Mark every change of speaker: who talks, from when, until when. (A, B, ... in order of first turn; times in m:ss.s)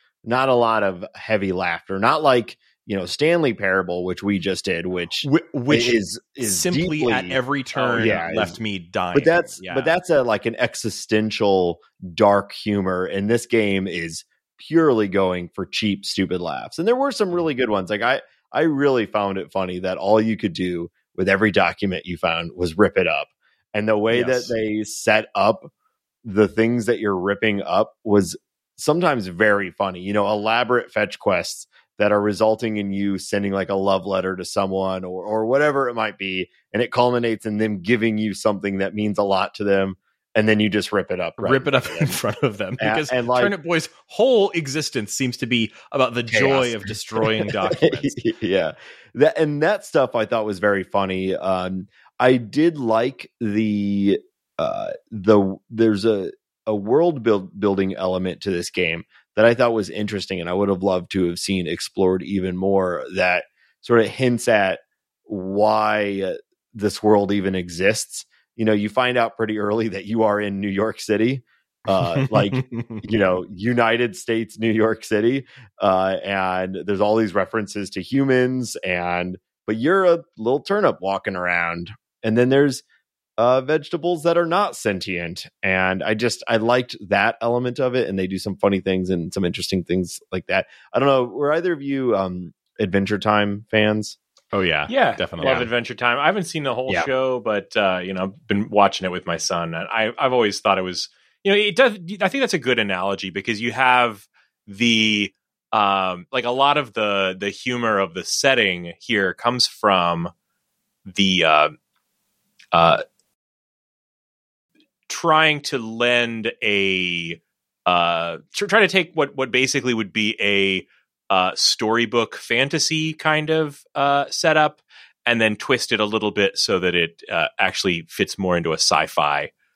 0:00.2-0:07.4 A
0:05.2-0:09.9 B
0:07.8-0:08.1 C
0:07.9-0:08.6 A
0:09.1-0:25.7 A
0:24.1-0:24.5 B
0:26.2-0:42.2 A
0:41.4-0:48.2 B
0:42.8-0:43.5 A
0:46.3-1:22.8 A
1:12.0-1:13.0 B
1:23.4-1:34.2 A
1:34.5-1:35.7 B
1:34.9-1:50.3 C
1:51.0-1:51.7 C
1:52.7-1:53.0 C
1:55.1-2:09.5 C